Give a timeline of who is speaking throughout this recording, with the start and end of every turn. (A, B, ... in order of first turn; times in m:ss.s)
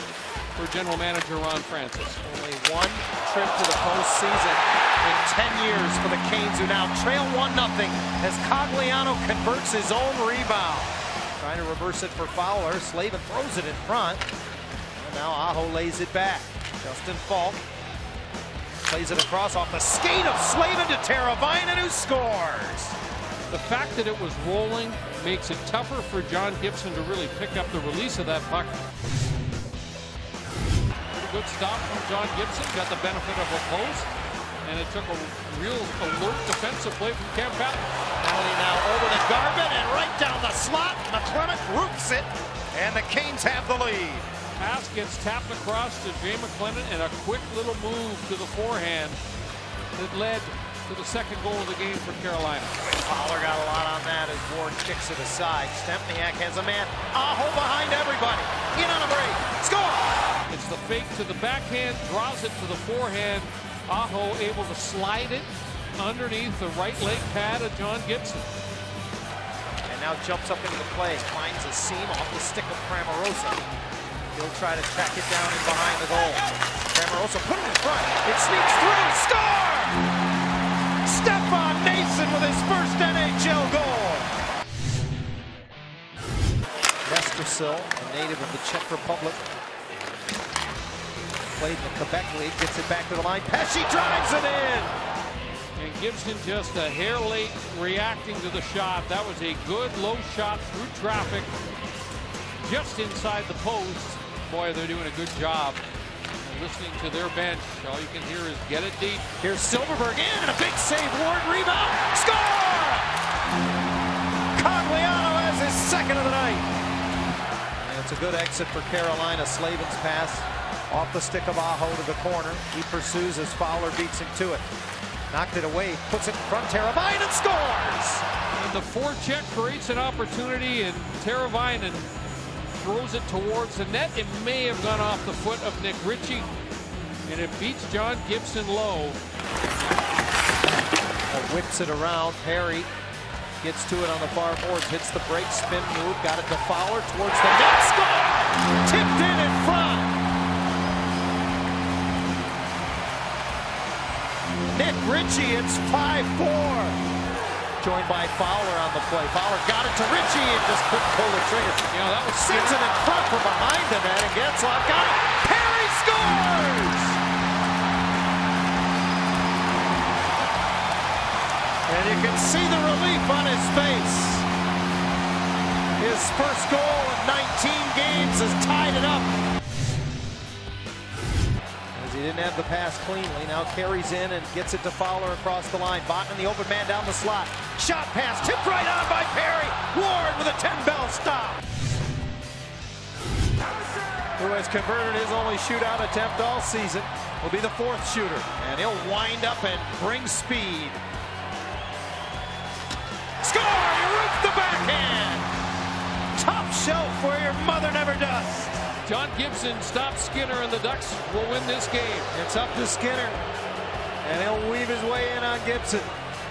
0:00.6-0:02.2 A
0:02.2-0:14.2 B
0:15.0-0:17.6 B
0:18.8-0:23.0 B
0:23.5-0:28.8 A
0:31.1-0:34.1 A
0:34.6-0:37.9 A
0:38.2-0:44.2 B
0:44.6-0:49.2 A
0:49.9-0:52.8 A
0:52.9-1:00.2 B
1:00.5-1:08.5 A
1:09.9-1:13.7 B
1:14.3-1:20.0 B
1:21.0-1:24.3 B
1:27.0-1:29.4 B
1:31.6-1:34.9 B
1:35.8-1:41.5 A
1:42.6-1:45.8 A
1:46.4-1:49.3 A
1:49.4-1:53.1 B
1:54.5-1:56.7 B
1:57.8-2:04.6 B
2:05.3-2:08.2 B
2:08.6-2:12.0 A
2:12.8-2:16.5 A
2:17.2-2:19.2 A
2:21.3-2:22.9 B
2:23.6-2:30.1 B
2:34.7-2:37.0 B
2:37.8-2:47.2 B
2:41.9-2:42.9 A
2:51.8-2:54.5 B
2:56.0-2:59.3 B
3:01.9-3:11.6 B
3:14.4-3:21.0 B
3:23.4-3:25.5 B
3:26.3-3:28.8 B
3:29.0-3:32.3 A
3:32.3-3:33.5 B
3:34.2-3:36.1 B